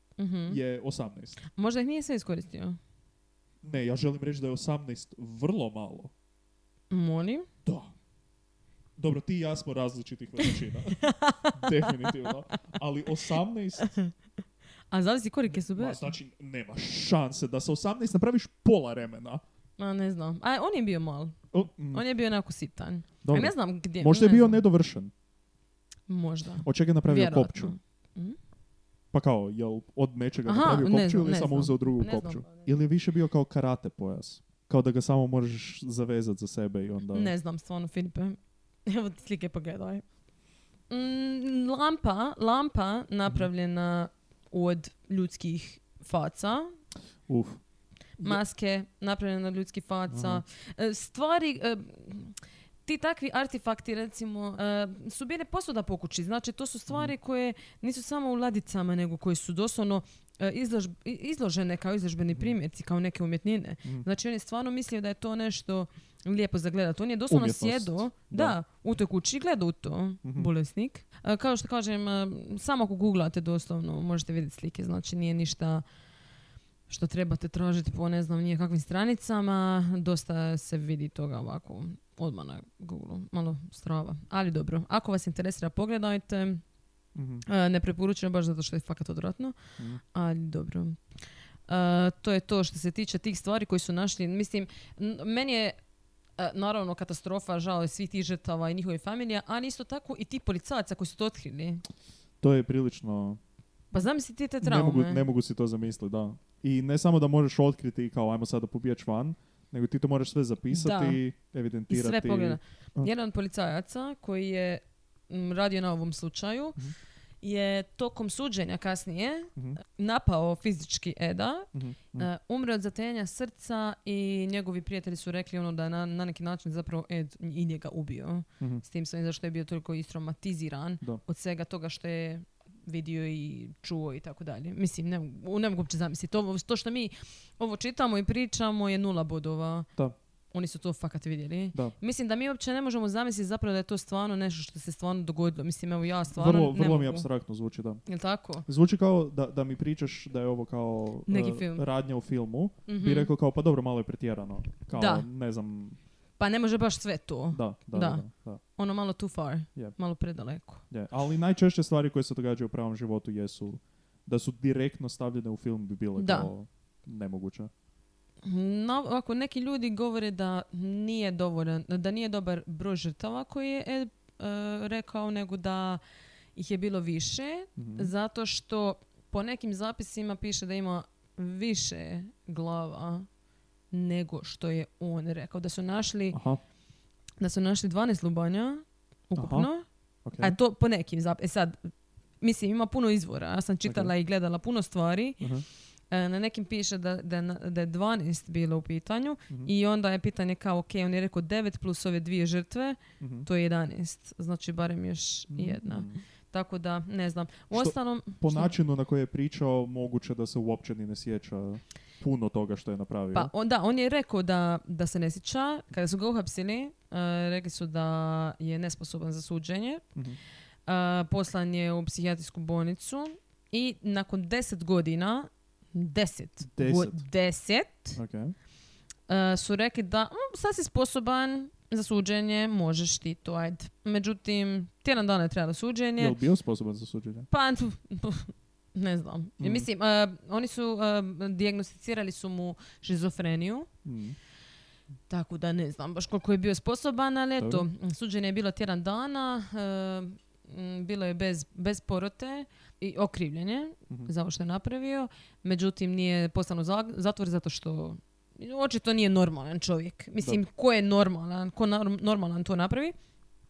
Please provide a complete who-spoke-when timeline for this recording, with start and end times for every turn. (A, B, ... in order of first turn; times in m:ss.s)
0:00.2-0:00.6 A
0:00.5-0:01.4 B
0:01.5-0:02.8 A
0:03.6-0:06.1 B
0:06.9-0:07.5 A
0:07.6-0:07.9 B
0:09.0-0:13.9 B
0:10.4-0:12.6 A
0:13.8-0:14.1 A
0:14.9-0:16.1 A
0:15.7-0:19.4 B
0:19.8-0:24.6 A
0:21.5-0:22.0 B
0:23.2-0:25.1 B
0:26.1-0:28.4 A
0:26.6-0:27.8 B
0:29.1-0:37.3 B
0:30.4-0:32.7 A
0:37.1-0:40.0 A
0:40.9-0:46.7 A
0:47.3-0:47.6 B
0:48.2-1:15.8 A
0:50.1-0:50.4 B
1:07.3-1:08.6 B
1:10.2-1:10.5 B
1:16.9-1:26.6 A
1:27.1-1:27.4 B
1:27.4-1:29.6 A
1:30.1-1:31.0 A
1:31.7-1:35.8 A
1:36.4-1:41.8 A
1:42.4-1:43.4 B
1:43.9-1:45.2 A
1:44.6-1:53.1 B
1:50.7-1:51.2 A
1:51.9-1:56.8 A
1:57.4-2:19.9 A
2:01.7-2:02.3 B
2:20.5-2:27.3 A
2:26.3-2:28.0 B
2:28.0-2:28.6 A
2:28.6-2:36.0 B
2:31.3-2:31.8 A
2:32.9-2:33.3 A
2:34.9-2:35.3 A
2:36.4-2:38.2 A
2:37.5-2:38.6 B
2:38.8-2:40.8 A
2:40.9-2:47.7 B
2:46.2-2:46.5 A
2:48.4-2:56.0 A
2:56.5-3:03.3 A
2:57.8-2:58.1 B
3:03.9-3:06.4 A
3:06.3-3:06.6 B
3:07.4-3:09.8 A
3:09.4-3:09.7 B
3:10.2-3:10.6 B
3:10.4-3:15.5 A
3:13.8-3:14.1 B
3:15.4-3:15.6 B
3:16.1-3:28.7 A
3:23.2-3:23.5 B
3:25.5-3:26.2 B
3:27.7-3:33.5 B
3:33.3-3:40.0 A
3:40.8-3:48.2 A
3:46.6-3:47.2 B
3:48.1-3:48.5 B
3:49.3-3:56.4 A
3:56.2-3:57.5 B
3:57.5-4:03.9 A
3:59.6-3:59.9 B
4:04.0-4:04.4 B
4:05.3-4:23.1 A
4:07.6-4:07.8 B